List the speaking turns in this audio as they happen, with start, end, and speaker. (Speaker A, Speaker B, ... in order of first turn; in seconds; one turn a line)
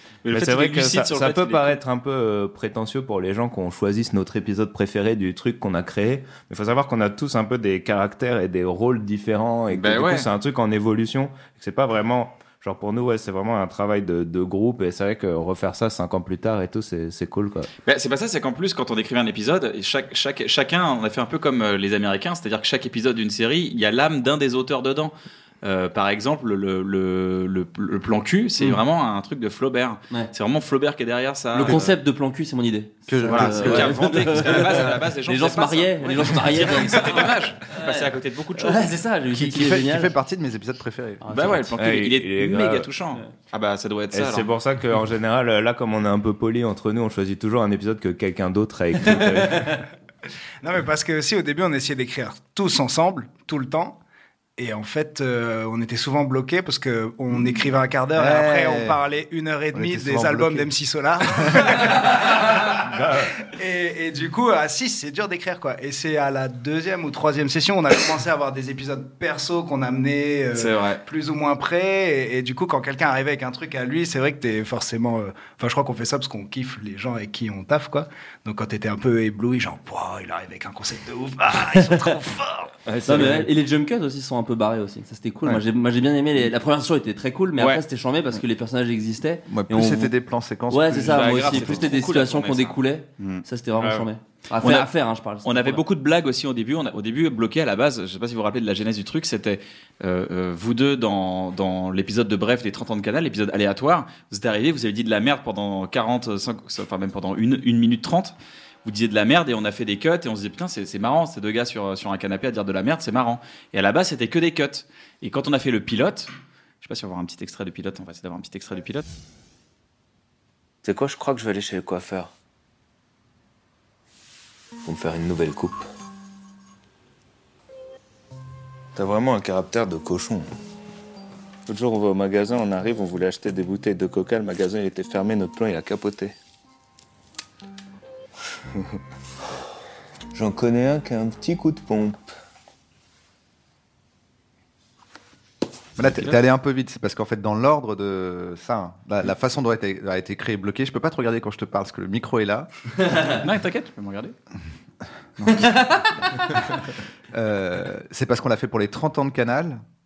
Speaker A: 0.2-1.8
Speaker B: 0.3-17.7
Speaker A: 9.7-10.3
Speaker A: 17.9-31.9
Speaker C: 31.5-40.1
Speaker D: 31.6-31.9
Speaker D: 33.1-34.6
Speaker A: 33.3-39.0
Speaker D: 39.3-41.3
Speaker C: 41.2-41.7
Speaker A: 41.3-44.5
Speaker B: 41.8-42.9
Speaker B: 44.1-49.8
Speaker E: 50.6-54.0
Speaker E: 54.6-62.8
Speaker D: 58.1-59.0
Speaker D: 59.7-60.7
Speaker D: 61.3-61.7
Speaker B: 62.8-63.3
Speaker E: 63.4-82.7
Speaker A: 70.5-71.0
Speaker B: 82.9-83.5
Speaker C: 83.1-90.1
Speaker A: 87.6-87.8
Speaker D: 89.5-92.0
Speaker C: 90.7-95.8
Speaker A: 91.1-94.0
Speaker A: 94.6-94.9
Speaker A: 95.4-108.3
Speaker A: 108.8-116.3
Speaker A: 116.8-119.1
Speaker F: 120.9-122.3
Speaker F: 124.9-125.7
Speaker F: 129.0-130.4
Speaker F: 131.7-136.2
Speaker F: 140.3-142.2
Speaker D: 146.0-152.7
Speaker A: 146.0-146.4
Speaker A: 153.2-154.3
Speaker D: 155.4-155.9
Speaker D: 157.3-159.8